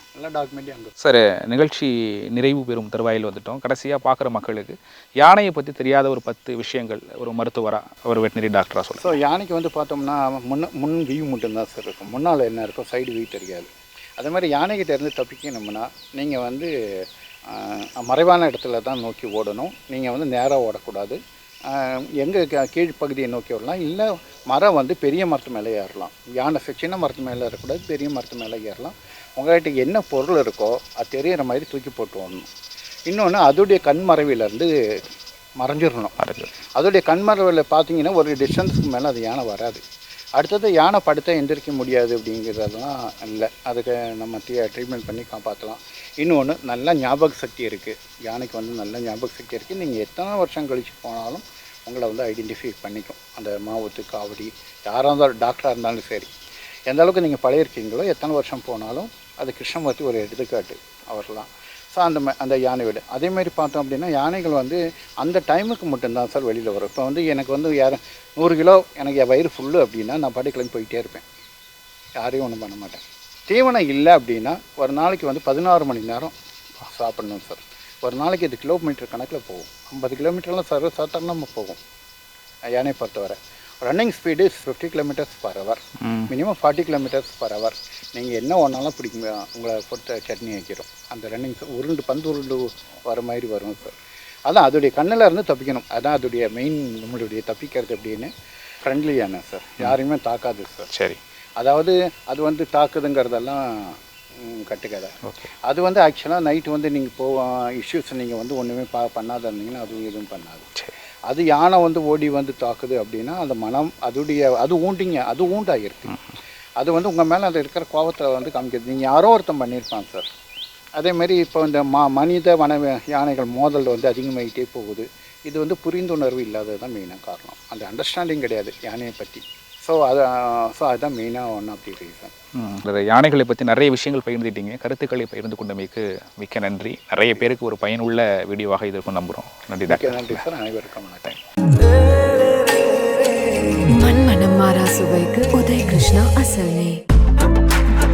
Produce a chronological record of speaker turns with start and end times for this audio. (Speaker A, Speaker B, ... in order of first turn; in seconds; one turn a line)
Speaker A: 0.1-0.9
Speaker B: 1.0-9.2
Speaker A: 9.0-32.5
Speaker A: 33.1-35.1
Speaker A: 35.6-36.1
Speaker B: 36.2-36.5
Speaker A: 36.8-39.8
Speaker A: 40.4-56.3
Speaker A: 56.9-71.2
Speaker A: 72.2-76.3
Speaker A: 76.8-81.8
Speaker A: 82.7-93.9
Speaker B: 86.0-86.3
Speaker A: 94.5-98.3
Speaker A: 98.8-100.9
Speaker B: 100.9-101.2
Speaker A: 101.6-110.7
Speaker A: 111.3-116.2
Speaker A: 116.8-120.3
Speaker A: 121.0-132.3
Speaker B: 132.5-140.4
Speaker A: 139.8-141.4
Speaker C: 143.8-147.0